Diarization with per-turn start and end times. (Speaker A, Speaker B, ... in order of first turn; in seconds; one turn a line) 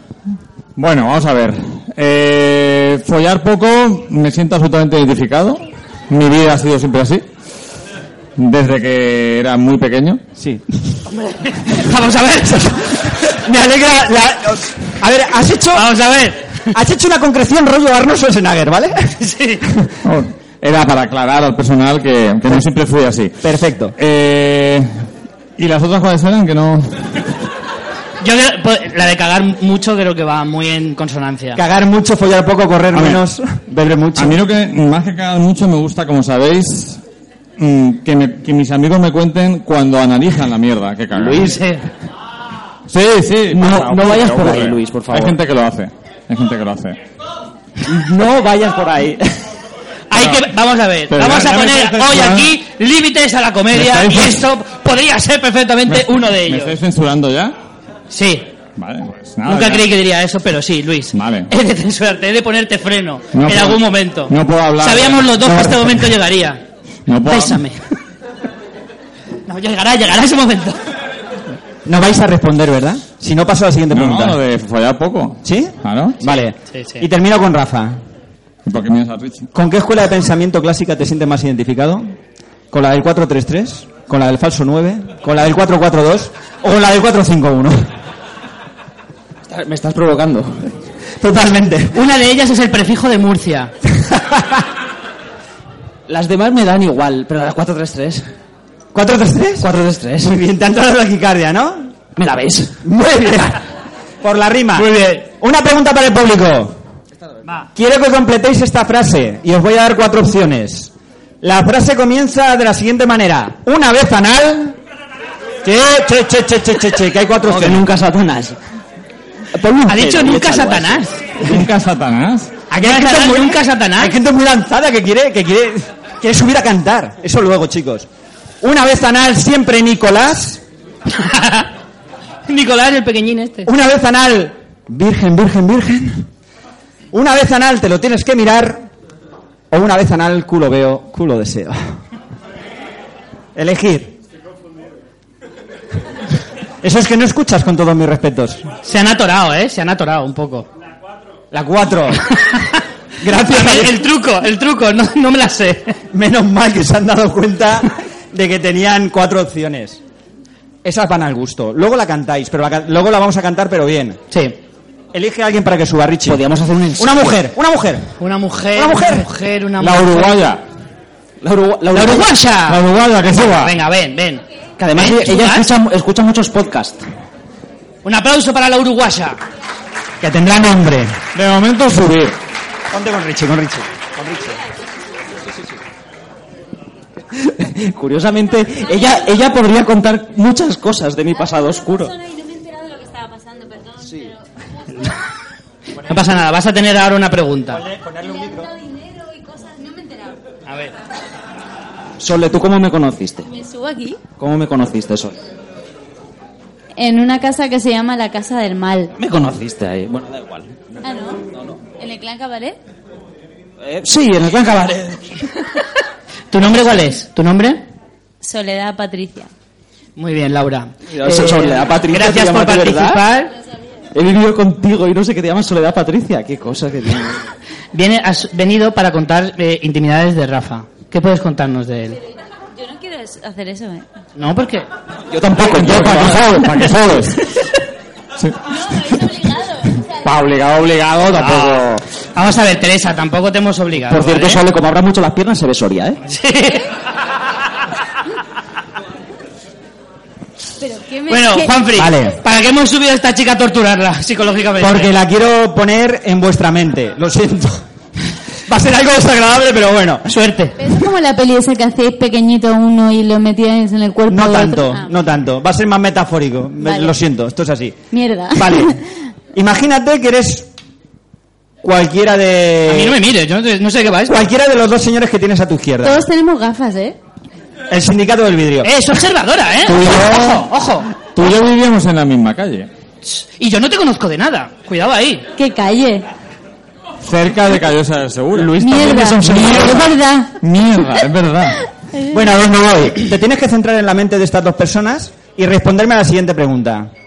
Speaker A: 0.8-7.2
Speaker A: 8.4-10.2
Speaker B: 10.4-10.6
Speaker C: 11.1-13.0
Speaker B: 13.2-15.9
Speaker C: 15.7-16.7
Speaker B: 16.7-19.1
Speaker C: 19.2-19.6
Speaker A: 20.0-23.4
Speaker B: 23.4-23.9
Speaker A: 24.0-24.9
Speaker A: 25.6-27.1
Speaker C: 28.2-31.6
Speaker B: 31.6-34.4
Speaker A: 32.9-33.2
Speaker A: 34.2-37.0
Speaker A: 37.6-41.6
Speaker D: 41.1-41.7
Speaker C: 41.5-41.8
Speaker A: 42.9-47.0
Speaker D: 43.5-45.4
Speaker D: 47.9-49.3
Speaker C: 50.1-56.8
Speaker A: 50.1-50.5
Speaker A: 51.1-52.5
Speaker A: 53.7-54.5
Speaker A: 55.9-57.5
Speaker C: 58.1-58.5
Speaker A: 58.8-59.9
Speaker C: 59.4-66.6
Speaker A: 61.1-61.5
Speaker A: 63.3-66.1
Speaker A: 67.1-67.6
Speaker C: 67.2-67.8
Speaker C: 69.5-70.8
Speaker B: 71.8-74.4
Speaker A: 73.9-76.2
Speaker B: 75.4-78.0
Speaker C: 76.7-77.0
Speaker A: 78.6-79.5
Speaker B: 79.5-82.1
Speaker B: 82.7-87.8
Speaker D: 89.5-90.7
Speaker B: 91.2-92.0
Speaker C: 91.9-93.7
Speaker B: 94.1-94.6
Speaker D: 96.1-98.2
Speaker B: 98.9-99.7
Speaker D: 99.6-100.4
Speaker B: 100.2-101.9
Speaker D: 102.2-102.8
Speaker B: 102.8-103.6
Speaker B: 104.2-106.8
Speaker B: 107.7-114.8
Speaker B: 115.6-117.9
Speaker D: 117.4-118.6
Speaker D: 119.5-121.0
Speaker C: 119.9-121.2
Speaker A: 121.4-122.5
Speaker C: 122.7-124.1
Speaker B: 122.7-128.1
Speaker B: 128.6-130.6
Speaker C: 131.1-131.7
Speaker C: 132.5-133.7
Speaker B: 133.7-136.3
Speaker B: 137.1-138.8
Speaker B: 139.7-142.0
Speaker B: 143.6-144.2
Speaker B: 146.8-148.7
Speaker C: 148.8-150.7
Speaker B: 151.5-152.2
Speaker C: 152.5-152.7
Speaker B: 153.2-154.0
Speaker C: 153.4-156.0
Speaker B: 156.1-160.0
Speaker B: 160.8-164.2
Speaker C: 164.3-164.6
Speaker B: 165.1-166.4
Speaker D: 166.3-167.3
Speaker B: 167.0-168.1
Speaker C: 168.2-170.4
Speaker B: 168.7-169.3
Speaker A: 169.8-170.6
Speaker D: 171.4-172.3
Speaker C: 171.9-172.8
Speaker A: 172.7-173.8
Speaker C: 173.6-174.4
Speaker D: 174.8-177.1
Speaker C: 174.9-175.7
Speaker C: 178.0-179.4
Speaker B: 180.2-181.2
Speaker A: 181.3-182.3
Speaker B: 182.9-184.6
Speaker D: 187.4-192.1
Speaker E: 191.8-194.4
Speaker C: 196.0-197.8
Speaker B: 197.7-198.7
Speaker E: 198.2-200.4
Speaker C: 200.7-200.9
Speaker D: 202.2-203.5
Speaker E: 203.5-204.2
Speaker D: 204.4-205.3
Speaker E: 206.9-209.1
Speaker D: 209.2-210.8
Speaker E: 211.0-211.4
Speaker E: 212.0-212.8
Speaker D: 213.8-215.3
Speaker C: 216.5-217.8
Speaker E: 218.4-219.5
Speaker C: 220.2-223.5
Speaker D: 221.1-223.2
Speaker D: 224.1-227.4
Speaker C: 227.9-232.2
Speaker E: 232.7-234.1
Speaker C: 234.4-234.9
Speaker D: 235.3-236.7
Speaker A: 235.6-237.4
Speaker E: 238.7-240.1
Speaker A: 240.2-242.0
Speaker C: 241.3-241.8
Speaker C: 242.3-244.6
Speaker D: 244.1-246.2
Speaker C: 246.2-246.9
Speaker E: 250.8-251.9
Speaker C: 251.3-255.1
Speaker B: 251.9-252.3
Speaker B: 254.8-257.8
Speaker B: 258.7-260.2
Speaker C: 260.2-260.8
Speaker E: 260.8-265.1
Speaker B: 264.3-268.0
Speaker E: 266.8-267.1
Speaker E: 268.1-269.0
Speaker B: 268.5-269.0
Speaker B: 269.5-270.7
Speaker B: 271.8-273.2
Speaker C: 272.9-274.4
Speaker B: 274.3-276.2
Speaker E: 276.0-277.2
Speaker B: 277.9-278.9
Speaker C: 278.8-281.1
Speaker A: 279.8-280.7
Speaker A: 281.3-282.9
Speaker C: 283.2-285.4
Speaker E: 285.5-286.3
Speaker A: 287.2-288.7
Speaker D: 288.5-290.1
Speaker E: 288.8-290.5
Speaker A: 289.4-290.1
Speaker A: 290.6-291.8
Speaker E: 292.1-292.4
Speaker B: 292.3-297.1